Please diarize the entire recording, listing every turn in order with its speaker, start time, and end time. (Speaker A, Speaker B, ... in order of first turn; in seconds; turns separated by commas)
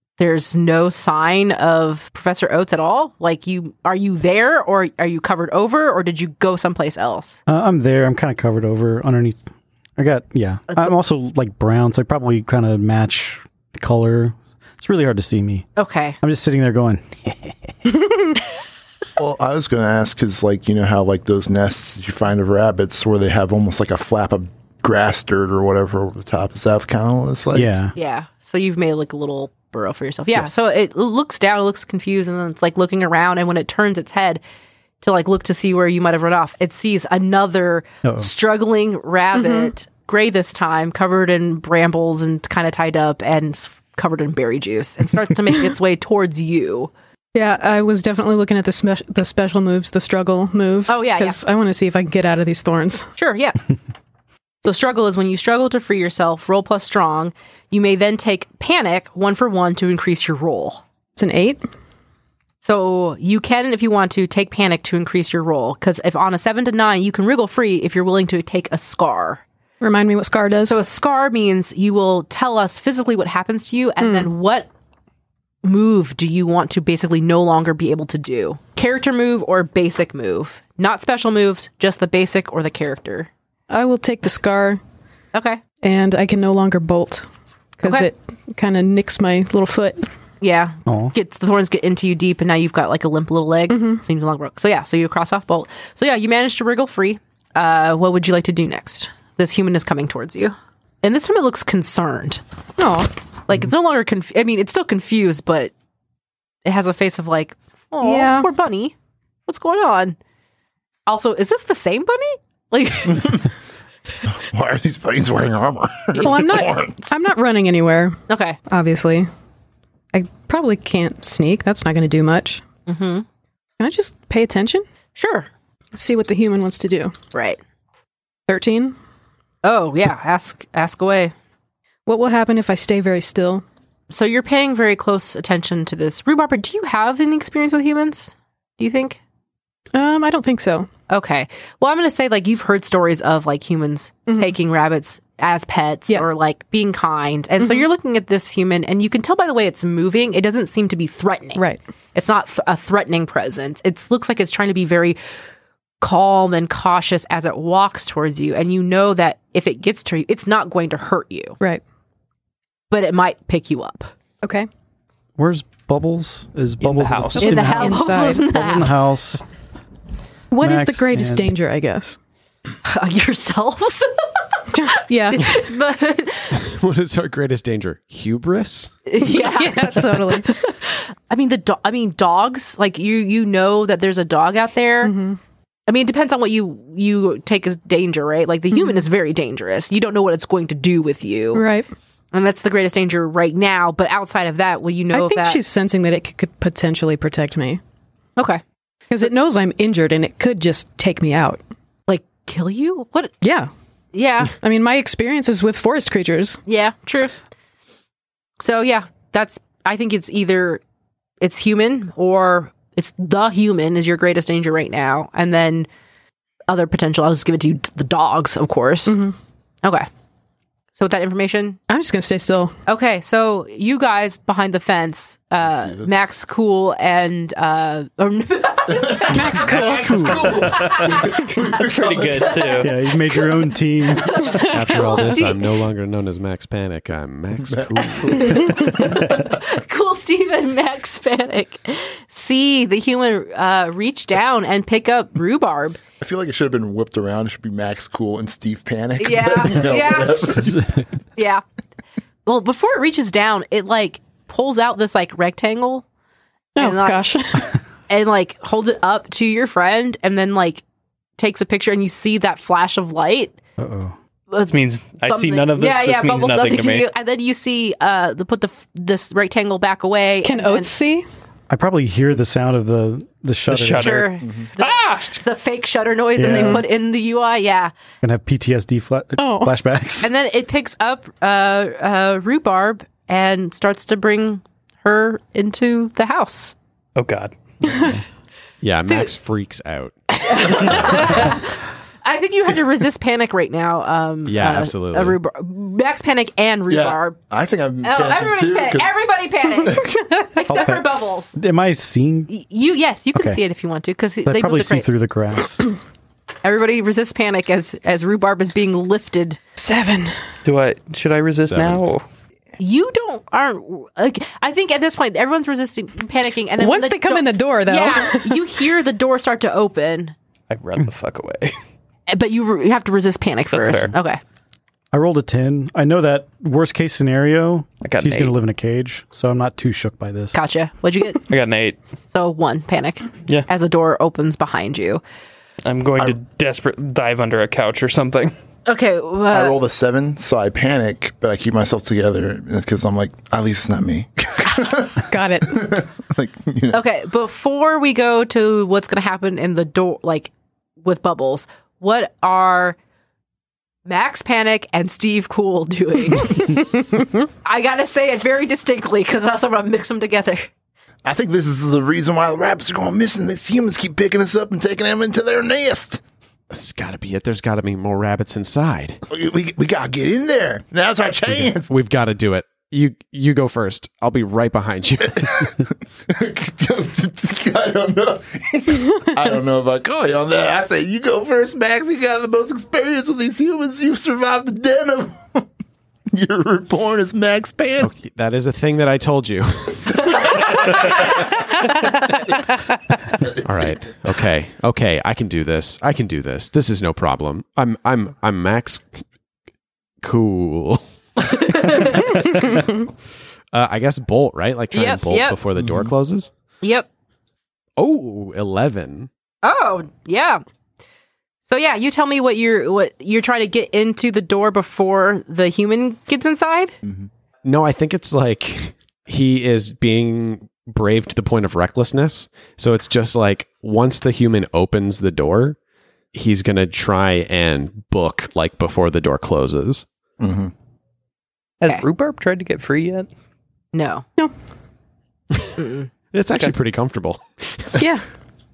Speaker A: 0.2-7.4, Speaker B: 7.5-9.4, Speaker B: 10.0-15.7, Speaker A: 15.8-16.2, Speaker B: 16.2-17.7, Speaker C: 19.2-27.7, Speaker B: 27.5-27.9, Speaker A: 27.9-34.4, Speaker A: 35.0-46.9, Speaker D: 39.4-39.7, Speaker D: 47.3-53.1, Speaker A: 50.9-51.4, Speaker A: 53.1-53.6, Speaker A: 54.6-60.8, Speaker D: 61.2-61.6, Speaker A: 62.6-69.4, Speaker D: 69.8-70.8, Speaker A: 70.7-74.7, Speaker D: 74.0-74.3, Speaker A: 75.6-83.3, Speaker D: 83.7-84.8, Speaker A: 85.3-85.6, Speaker D: 85.8-87.3, Speaker D: 87.8-90.1, Speaker A: 87.8-88.1, Speaker A: 90.4-102.4, Speaker B: 90.9-91.1, Speaker D: 93.7-94.0, Speaker D: 102.8-103.1, Speaker A: 103.5-105.7, Speaker A: 106.7-108.9, Speaker D: 108.0-108.5, Speaker A: 109.5-110.2, Speaker A: 111.1-113.5, Speaker C: 114.3-117.1, Speaker D: 116.2-119.3, Speaker A: 118.3-118.6, Speaker D: 120.1-122.6, Speaker A: 122.9-123.2, Speaker D: 123.8-124.9, Speaker A: 125.2-125.5, Speaker D: 126.0-127.2, Speaker A: 127.3-127.6, Speaker D: 128.5-129.0, Speaker A: 129.6-131.3, Speaker D: 132.1-133.6, Speaker A: 134.1-139.2, Speaker D: 139.9-140.9, Speaker A: 141.1-151.6, Speaker D: 144.3-144.5, Speaker D: 147.6-147.9, Speaker A: 152.2-155.2, Speaker A: 156.0-161.6, Speaker A: 162.9-164.1, Speaker D: 164.4-164.7, Speaker B: 165.4-169.4, Speaker E: 166.8-167.6, Speaker D: 167.4-168.5, Speaker A: 167.4-169.0, Speaker D: 170.5-172.2, Speaker B: 170.6-171.5, Speaker A: 172.8-176.6, Speaker D: 174.7-175.6, Speaker F: 176.6-179.0, Speaker A: 179.1-185.1, Speaker D: 179.3-180.5, Speaker D: 185.0-185.4, Speaker A: 185.9-191.7, Speaker D: 188.8-189.0, Speaker D: 191.5-191.9, Speaker A: 192.3-195.6, Speaker D: 195.1-197.8, Speaker D: 199.1-201.6, Speaker A: 202.1-203.3, Speaker D: 203.4-203.7, Speaker A: 204.1-204.6, Speaker D: 204.6-206.6, Speaker A: 206.7-207.3, Speaker A: 208.6-210.8, Speaker A: 211.4-215.9, Speaker A: 216.7-219.2, Speaker D: 219.1-219.3, Speaker A: 220.9-221.8, Speaker D: 221.9-222.7, Speaker A: 222.9-235.7, Speaker C: 225.6-226.2, Speaker C: 229.1-232.7, Speaker D: 229.2-230.5, Speaker B: 229.9-231.1, Speaker E: 231.7-233.0, Speaker B: 232.8-234.6, Speaker D: 234.6-235.5, Speaker F: 234.7-238.9, Speaker C: 237.7-238.8, Speaker A: 238.1-246.0, Speaker C: 246.2-250.9, Speaker A: 249.2-250.7, Speaker B: 250.5-250.9, Speaker A: 251.4-251.6, Speaker A: 252.5-256.1, Speaker D: 256.8-257.6, Speaker A: 256.8-257.2, Speaker A: 258.1-260.8, Speaker A: 261.4-263.6, Speaker B: 263.8-264.2, Speaker A: 264.5-270.9, Speaker E: 264.7-267.1, Speaker D: 270.4-271.3, Speaker B: 271.7-274.3, Speaker E: 273.7-275.4, Speaker A: 273.9-277.9, Speaker B: 276.4-276.9, Speaker D: 276.5-276.8, Speaker B: 278.2-280.3, Speaker D: 279.4-279.8, Speaker A: 280.2-286.7, Speaker E: 287.2-287.6, Speaker F: 288.8-291.6, Speaker A: 289.1-289.3, Speaker A: 290.4-297.4, Speaker F: 294.5-295.4, Speaker C: 296.9-299.2, Speaker A: 298.0-301.6, Speaker B: 300.7-302.5, Speaker A: 302.5-305.1, Speaker B: 303.4-303.6, Speaker B: 304.4-305.9, Speaker A: 306.6-309.6, Speaker D: 309.8-310.4, Speaker E: 310.6-312.2, Speaker F: 311.6-312.0, Speaker A: 312.8-320.4, Speaker D: 316.8-318.7, Speaker E: 320.7-321.8, Speaker A: 322.3-324.4, Speaker E: 323.7-324.1, Speaker B: 325.1-330.6, Speaker E: 328.0-328.5, Speaker A: 330.5-331.5, Speaker E: 331.5-332.0, Speaker A: 332.3-335.2, Speaker E: 335.9-338.5, Speaker A: 338.9-339.8, Speaker C: 339.5-347.0, Speaker D: 345.2-345.9, Speaker A: 346.9-350.5, Speaker A: 351.0-353.0, Speaker A: 354.1-356.9, Speaker A: 357.6-360.7, Speaker C: 361.2-366.2, Speaker F: 366.7-369.2, Speaker C: 369.3-371.9, Speaker F: 371.9-375.7, Speaker C: 376.3-385.7, Speaker C: 386.3-388.1, Speaker F: 388.0-391.4, Speaker C: 393.4-394.2, Speaker F: 393.6-399.2, Speaker F: 400.2-403.0, Speaker A: 401.6-402.4, Speaker F: 403.7-406.5, Speaker A: 404.9-405.6, Speaker C: 405.8-406.1, Speaker A: 406.8-407.1, Speaker F: 408.0-409.3, Speaker A: 409.6-410.6, Speaker A: 411.7-417.0, Speaker F: 417.6-425.8, Speaker F: 426.3-430.1, Speaker C: 430.4-430.7, Speaker E: 431.8-433.3, Speaker A: 433.9-434.2, Speaker A: 435.8-436.1, Speaker F: 436.3-438.0, Speaker D: 438.0-438.2